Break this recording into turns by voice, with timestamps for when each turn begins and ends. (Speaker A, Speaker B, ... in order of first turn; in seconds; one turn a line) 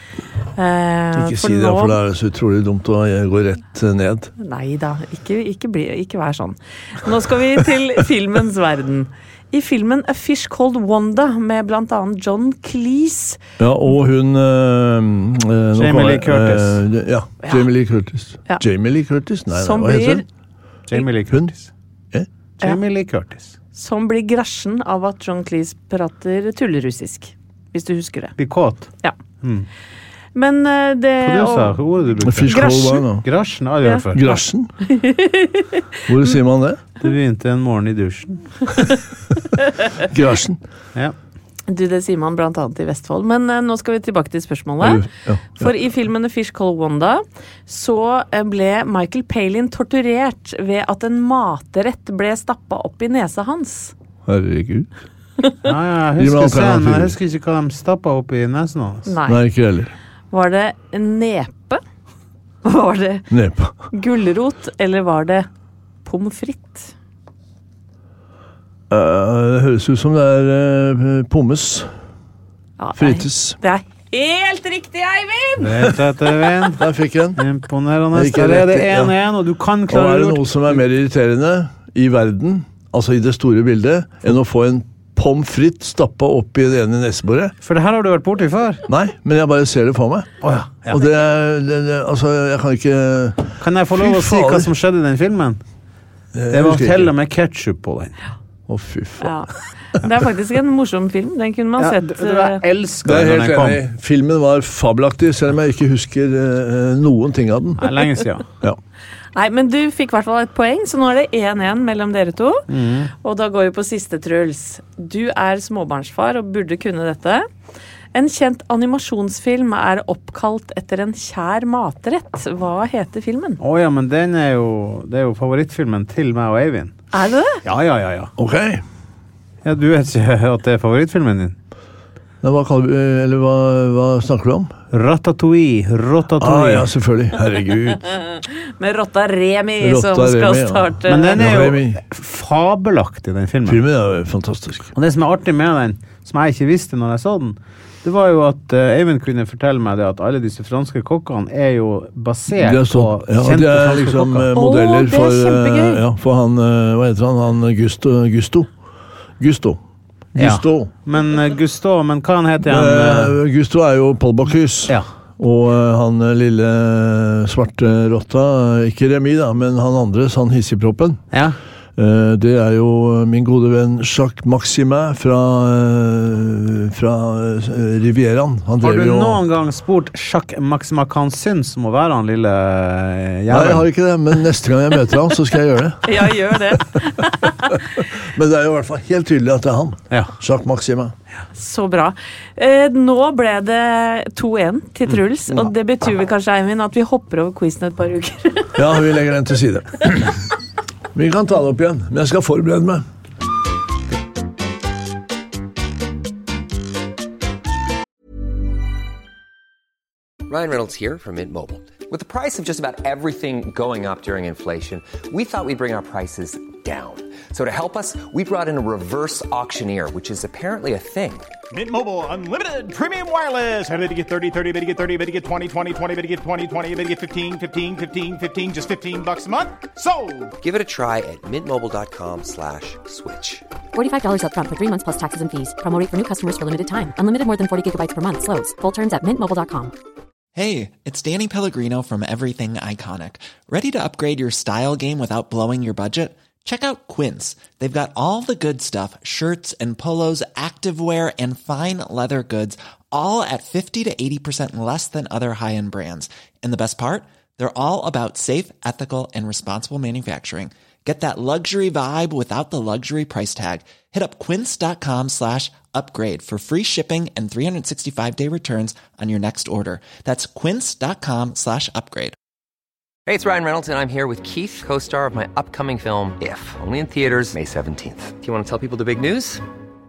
Speaker A: 0.6-2.0
Speaker B: 1.1-4.3
Speaker A: 4.4-13.4
Speaker B: 13.6-20.2
Speaker C: 15.7-16.8
Speaker A: 19.5-20.2
Speaker C: 20.9-21.7
Speaker C: 22.6-23.5
Speaker A: 23.7-28.3
Speaker C: 28.4-28.9
Speaker C: 29.4-29.7
Speaker A: 30.3-31.8
Speaker C: 31.2-32.6
Speaker B: 32.2-33.3
Speaker A: 32.5-33.0
Speaker C: 33.2-34.2
Speaker B: 34.1-34.7
Speaker A: 34.8-35.8
Speaker B: 36.1-36.8
Speaker C: 37.0-38.4
Speaker B: 40.0-40.6
Speaker A: 41.7-53.9
Speaker B: 44.8-45.7
Speaker B: 54.2-54.9
Speaker C: 55.6-59.1
Speaker B: 56.2-57.2
Speaker A: 59.1-59.4
Speaker B: 59.3-59.9
Speaker A: 60.3-61.8
Speaker A: 62.6-63.3
Speaker B: 63.3-63.7
Speaker A: 63.9-65.5
Speaker A: 66.0-66.9
Speaker B: 68.9-71.9
Speaker A: 72.8-75.9
Speaker B: 73.0-73.6
Speaker C: 75.6-76.8
Speaker B: 76.7-77.4
Speaker C: 77.4-80.7
Speaker B: 78.1-79.1
Speaker B: 79.9-87.5
Speaker C: 87.6-88.8
Speaker B: 88.9-90.3
Speaker C: 90.4-91.0
Speaker B: 90.9-94.7
Speaker C: 93.6-95.6
Speaker B: 96.3-97.1
Speaker C: 96.5-98.1
Speaker B: 98.7-99.4
Speaker A: 99.2-102.6
Speaker C: 101.8-103.8
Speaker B: 103.0-107.9
Speaker C: 107.8-108.4
Speaker A: 109.3-112.6
Speaker C: 112.7-113.1
Speaker A: 113.2-117.5
Speaker A: 118.1-123.6
Speaker C: 123.6-126.9
Speaker A: 127.1-127.6
Speaker C: 127.6-128.3
Speaker B: 128.4-128.8
Speaker C: 129.6-131.6
Speaker B: 132.4-134.7
Speaker C: 134.9-136.9
Speaker B: 136.4-138.0
Speaker A: 138.2-141.4
Speaker B: 139.8-142.0
Speaker C: 141.1-143.8
Speaker B: 143.7-144.9
Speaker C: 144.9-154.5
Speaker B: 152.6-158.7
Speaker A: 154.5-156.0
Speaker B: 159.4-159.8
Speaker B: 160.3-160.9
Speaker C: 160.4-163.4
Speaker B: 162.6-171.2
Speaker C: 171.3-171.6
Speaker B: 171.9-179.4
Speaker C: 178.8-183.9
Speaker B: 183.5-187.0
Speaker A: 186.0-187.8
Speaker B: 187.7-191.1
Speaker A: 191.5-198.8
Speaker B: 198.8-200.4
Speaker B: 201.1-203.0
Speaker D: 210.5-221.5
Speaker E: 221.7-230.5
Speaker D: 230.6-233.6
Speaker F: 233.9-239.9
Speaker G: 240.5-272.3
Speaker D: 273.3-279.6